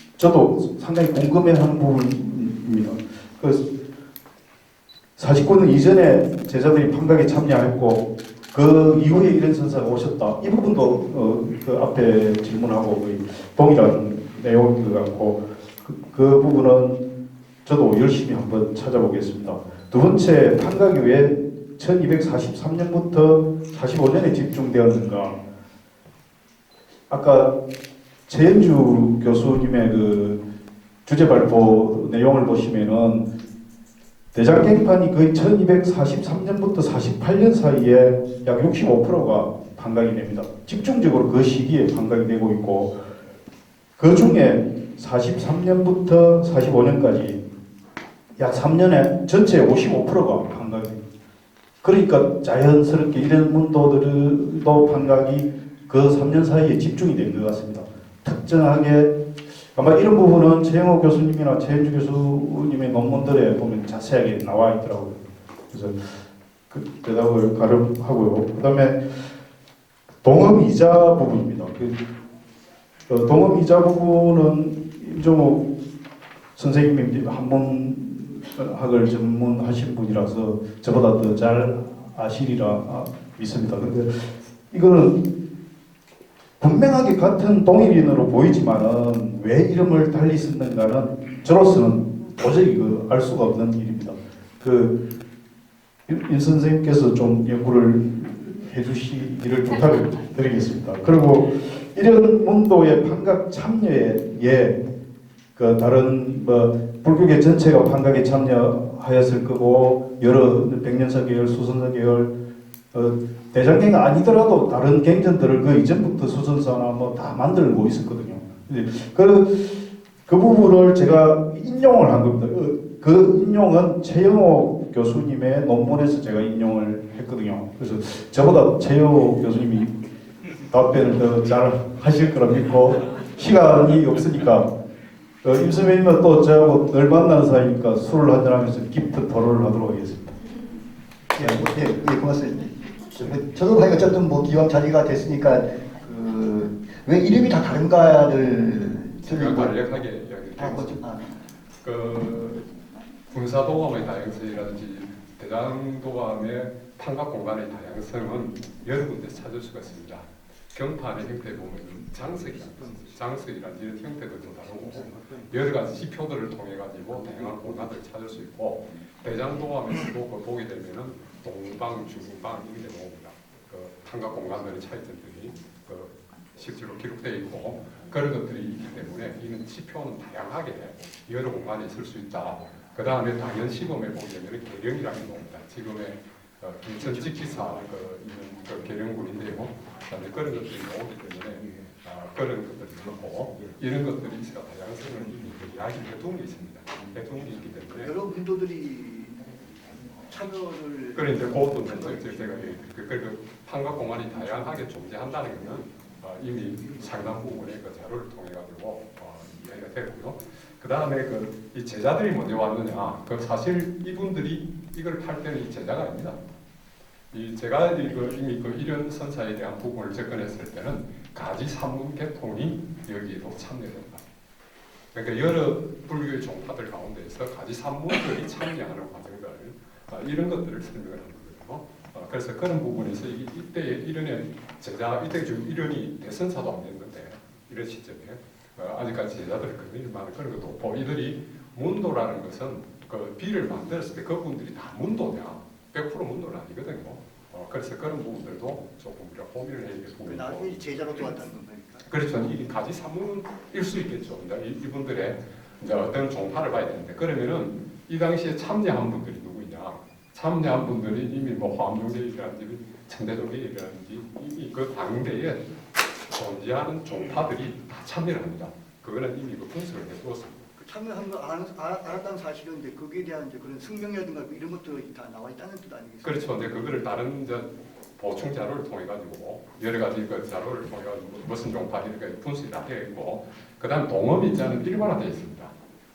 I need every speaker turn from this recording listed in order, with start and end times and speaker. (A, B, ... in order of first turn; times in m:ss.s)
0:00.2-0:03.7 A
0:05.2-0:17.0 A
0:17.6-0:25.4 A
0:27.1-0:27.6 A
0:28.3-0:30.4 A
0:31.0-0:33.3 A
0:34.3-0:43.0 A
0:44.0-0:47.4 A
0:48.4-0:51.0 A
0:51.8-1:09.3 A
1:10.2-1:12.0 A
1:13.1-1:15.7 A
1:16.6-1:25.2 A
1:26.6-1:35.0 A
1:36.1-1:44.8 A
1:45.6-1:52.3 A
1:52.9-2:10.0 A
2:10.7-2:14.8 A
2:15.4-2:20.4 A
2:21.3-2:30.0 B
2:21.4-2:21.7 A
2:29.2-2:31.0 C
2:30.6-2:31.4 B
2:31.8-2:32.7 C
2:33.3-3:18.1 C
2:45.0-2:45.5 B
3:18.0-3:22.8 B
3:21.1-3:36.4 C
3:37.3-3:44.2 C
3:45.1-4:10.9 C
4:10.2-4:12.1 B
4:12.0-4:25.7 C
4:26.3-4:30.6 C
4:30.8-4:36.7 B
4:36.2-4:45.7 C